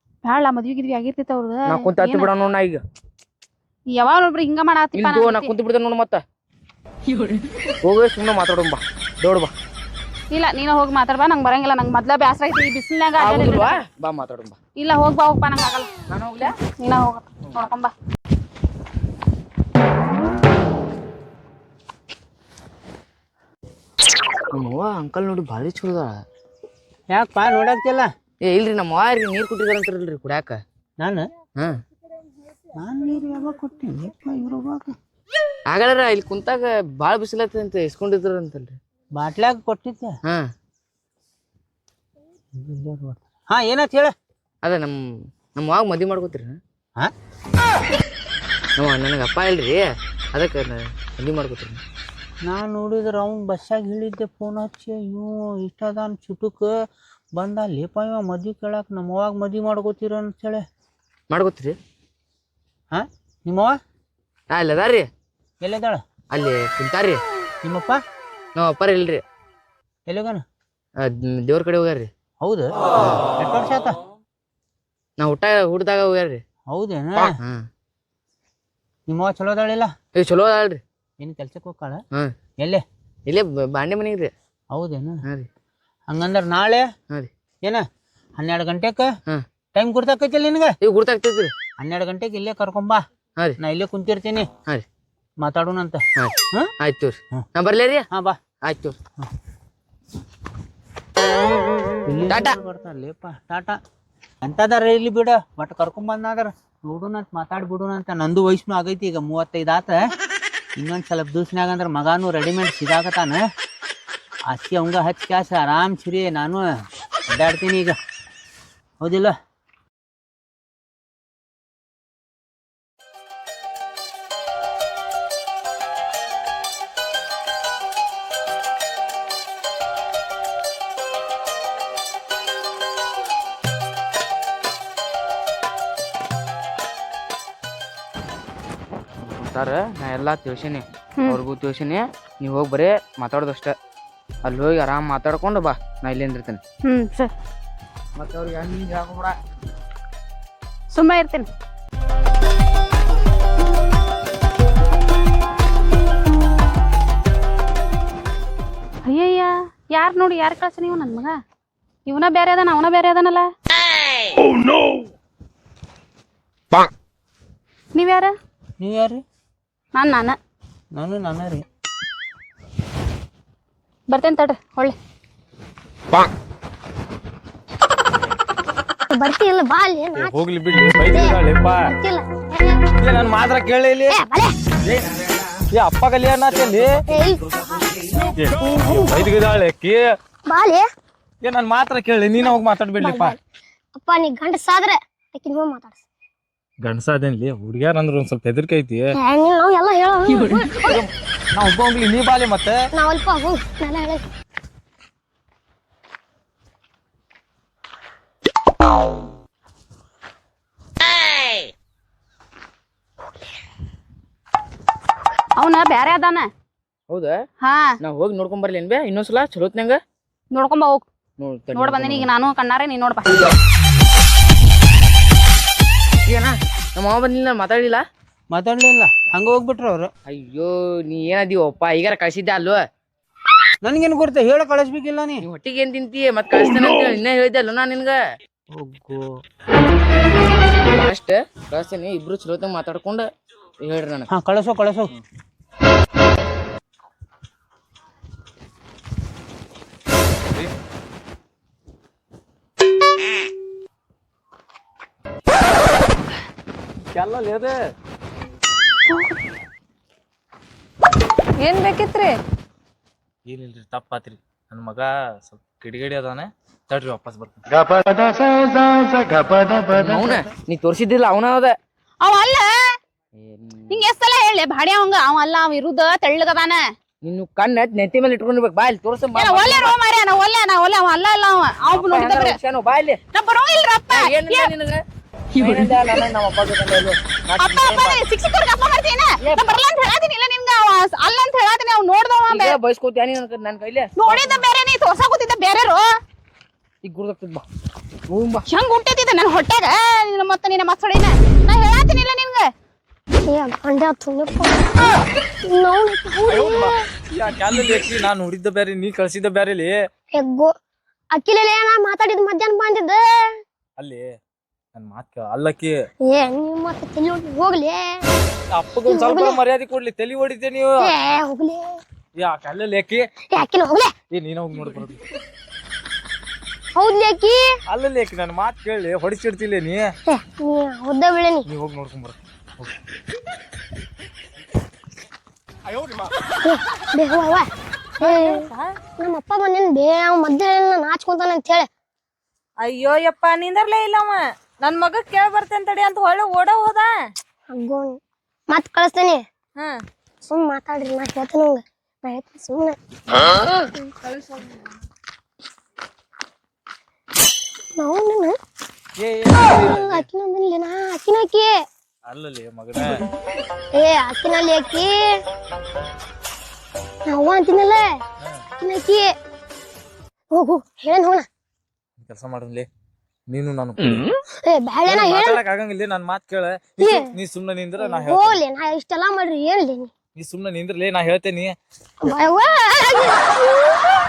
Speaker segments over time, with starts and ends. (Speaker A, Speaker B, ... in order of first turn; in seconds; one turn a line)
Speaker A: 0.2-2.3
Speaker B: 1.7-2.8
Speaker A: 3.9-5.5
Speaker B: 4.9-6.2
Speaker B: 7.8-9.5
Speaker A: 10.3-13.8
Speaker B: 13.1-14.6
Speaker A: 14.8-15.9
Speaker B: 16.1-16.5
Speaker A: 16.8-17.9
Speaker B: 17.4-17.7
Speaker B: 24.5-26.2
Speaker C: 27.1-28.1
Speaker B: 28.4-30.6
Speaker C: 32.8-34.9
Speaker B: 35.7-38.8
Speaker C: 39.1-40.1
Speaker C: 42.6-44.1
Speaker B: 44.6-44.9
Speaker B: 45.5-46.6
Speaker B: 48.8-51.8
Speaker C: 52.5-56.7
Speaker C: 57.4-60.6
Speaker B: 61.3-61.7
Speaker C: 62.9-63.7
Speaker B: 64.5-65.1
Speaker C: 65.6-66.0
Speaker B: 66.3-67.2
Speaker C: 67.6-68.0
Speaker B: 68.5-69.2
Speaker C: 70.1-70.4
Speaker B: 71.0-72.1
Speaker C: 72.4-72.7
Speaker C: 73.4-74.0
Speaker B: 75.2-76.4
Speaker C: 76.7-77.3
Speaker B: 77.2-77.7
Speaker C: 79.1-79.9
Speaker B: 80.1-80.8
Speaker C: 81.2-82.0
Speaker B: 83.3-84.3
Speaker C: 84.7-85.2
Speaker C: 86.1-86.8
Speaker C: 88.4-89.0
Speaker C: 89.7-90.7
Speaker B: 90.8-91.5
Speaker C: 91.8-93.0
Speaker C: 93.6-94.5
Speaker C: 95.4-96.7
Speaker B: 96.2-98.1
Speaker C: 98.1-98.4
Speaker B: 98.6-99.0
Speaker C: 102.0-103.8
Speaker B: 102.3-102.6
Speaker C: 104.4-110.0
Speaker C: 110.8-113.4
Speaker C: 114.5-116.7
Speaker C: 117.3-117.9
Speaker C: 119.0-119.3
Speaker B: 139.2-143.7
Speaker B: 144.4-146.6
Speaker A: 146.8-147.3
Speaker B: 148.2-149.3
Speaker A: 150.9-151.5
Speaker A: 159.0-161.3
Speaker A: 162.1-163.5
Speaker A: 167.9-168.3
Speaker C: 168.8-169.2
Speaker A: 169.9-170.3
Speaker C: 170.9-171.6
Speaker A: 174.1-174.9
Speaker D: 179.1-180.3
Speaker E: 180.1-181.8
Speaker D: 181.1-182.8
Speaker E: 183.0-184.2
Speaker D: 184.1-184.5
Speaker E: 184.8-185.2
Speaker E: 185.7-186.9
Speaker D: 187.1-187.4
Speaker E: 188.4-190.0
Speaker D: 188.6-189.2
Speaker D: 190.5-190.8
Speaker E: 191.4-193.3
Speaker D: 193.0-193.4
Speaker D: 193.9-196.0
Speaker E: 196.8-199.0
Speaker D: 199.2-201.0
Speaker E: 200.9-202.8
Speaker D: 202.9-204.2
Speaker A: 215.6-216.5
Speaker B: 217.1-217.3
Speaker B: 218.0-220.0
Speaker A: 220.5-221.0
Speaker B: 221.4-222.3
Speaker A: 221.7-223.5
Speaker B: 226.2-228.0
Speaker C: 228.5-230.1
Speaker B: 230.3-232.8
Speaker C: 233.8-235.4
Speaker B: 235.4-238.2
Speaker C: 238.7-239.2
Speaker B: 240.8-243.3
Speaker B: 243.8-244.3
Speaker C: 244.3-245.1
Speaker E: 257.1-257.8
Speaker F: 261.6-262.3
Speaker E: 263.5-267.6
Speaker B: 269.9-271.8
Speaker A: 272.2-272.7
Speaker B: 273.4-274.0
Speaker A: 273.9-276.9
Speaker B: 277.2-279.9
Speaker A: 279.3-282.6
Speaker B: 281.9-283.2
Speaker A: 283.3-284.7
Speaker B: 284.1-288.2
Speaker A: 287.6-292.8
Speaker B: 289.4-289.8
Speaker B: 292.5-294.6
Speaker A: 294.2-296.1
Speaker B: 297.0-297.6
Speaker B: 298.3-298.6
Speaker A: 298.7-302.7
Speaker D: 303.5-305.1
Speaker D: 305.7-307.0
Speaker E: 307.3-309.9
Speaker D: 310.4-310.7
Speaker D: 311.3-313.4
Speaker E: 314.0-314.2
Speaker E: 314.9-315.9
Speaker D: 316.3-318.2
Speaker E: 318.7-320.9
Speaker D: 319.1-319.6
Speaker D: 321.0-321.8
Speaker E: 322.4-323.2
Speaker D: 323.5-324.1
Speaker E: 324.3-325.2
Speaker D: 326.9-327.6
Speaker E: 327.9-330.1
Speaker D: 330.3-331.6
Speaker E: 331.7-332.9
Speaker D: 336.6-337.7
Speaker D: 338.2-338.7
Speaker F: 338.2-338.8
Speaker D: 339.2-341.9
Speaker F: 342.8-347.1
Speaker D: 347.7-348.2
Speaker D: 348.7-349.4
Speaker D: 350.5-353.9
Speaker D: 358.0-358.5
Speaker E: 359.2-360.2
Speaker D: 359.6-361.7
Speaker E: 362.3-363.2
Speaker D: 363.9-365.1
Speaker D: 367.2-368.0
Speaker D: 368.8-369.3
Speaker D: 370.5-371.4
Speaker E: 372.2-372.9
Speaker E: 373.5-374.3
Speaker D: 374.6-375.6
Speaker E: 375.1-378.6
Speaker D: 377.0-377.3
Speaker D: 378.0-380.1
Speaker E: 380.4-381.7
Speaker D: 382.2-384.0